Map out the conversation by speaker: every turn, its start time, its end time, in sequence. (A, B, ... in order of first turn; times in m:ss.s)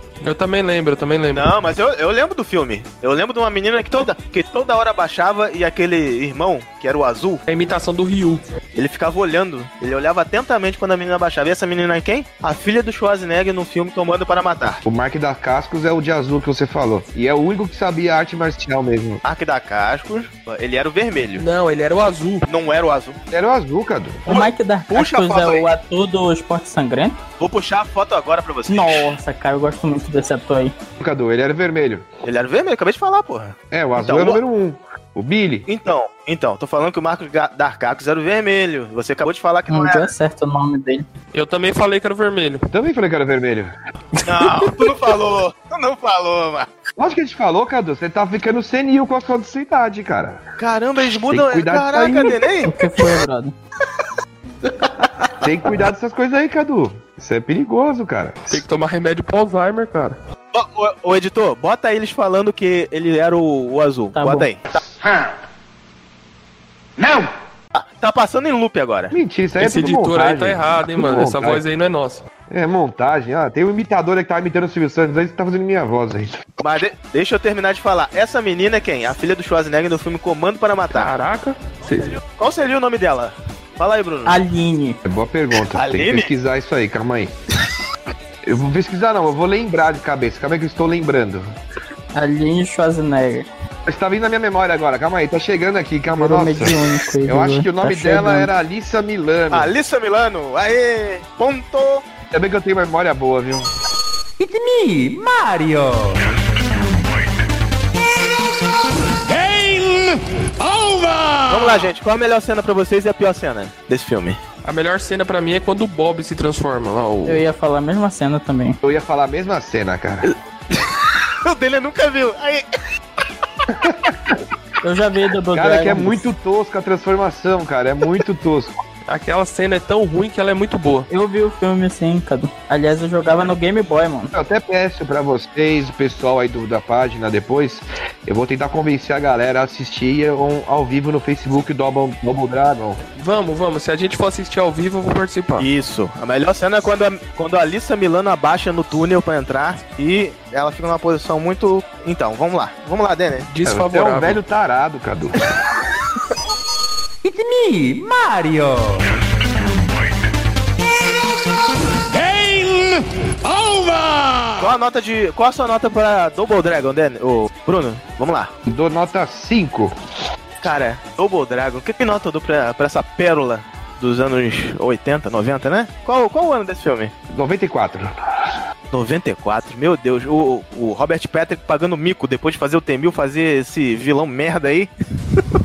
0:00.2-0:01.5 A
0:01.3-0:07.4 B
0:07.5-0:08.4 A
0:08.7-0:14.8 B
0:14.8-0:19.2 C
0:19.2-0:21.4 B
0:21.4-0:22.4 A
0:22.5-0:23.2 B
0:23.3-0:24.2 C
0:24.3-0:25.7 B
0:24.3-0:27.2 D
0:27.4-0:29.1 B
0:28.7-0:30.7 D
0:31.0-0:32.1 C
0:32.2-0:34.4 B
0:33.7-0:35.6 C
0:35.7-0:40.1 B
0:39.7-0:41.1 D
0:41.3-0:42.7 A
0:42.7-0:43.7 C
0:44.2-0:44.7 A
0:44.2-0:46.7 B
0:47.0-0:50.4 C
0:50.6-0:52.7 B
0:51.3-0:52.4 C
0:52.6-0:53.5 D
0:55.4-0:58.6 C
0:58.5-1:00.2 A
1:00.5-1:04.6 B
1:04.1-1:04.5 D
1:07.7-1:09.2 B
1:09.1-1:11.6 C
1:09.6-1:12.2 A
1:12.5-1:16.4 C
1:16.6-1:21.1 B
1:20.9-1:22.1 A
1:22.4-1:24.4 B
1:24.3-1:25.0 D
1:25.0-1:27.3 C
1:25.7-1:26.3 B
1:28.4-1:31.5 C
1:32.1-1:33.5 D
1:33.9-1:39.7 C
1:36.1-1:38.5 D
1:39.5-1:42.0 B
1:42.3-1:43.7 C
1:44.4-1:46.3 E
1:51.5-1:54.4 B
1:54.6-1:57.4 A
1:57.2-1:58.8 D
1:58.8-2:00.3 C
2:00.8-2:02.6 B
2:03.7-2:04.4 C
2:04.8-2:06.2 D
2:05.5-2:08.8 C
2:09.1-2:11.1 A
2:11.1-2:14.3 D
2:14.3-2:23.0 C
2:23.2-2:25.7 A
2:25.6-2:33.5 B
2:33.5-2:34.4 A
2:33.6-2:35.5 C
2:37.2-2:39.2 E
2:44.6-2:48.5 B
2:48.7-2:49.9 C
2:50.6-2:57.1 B
2:57.3-2:58.5 C
2:58.9-3:05.4 B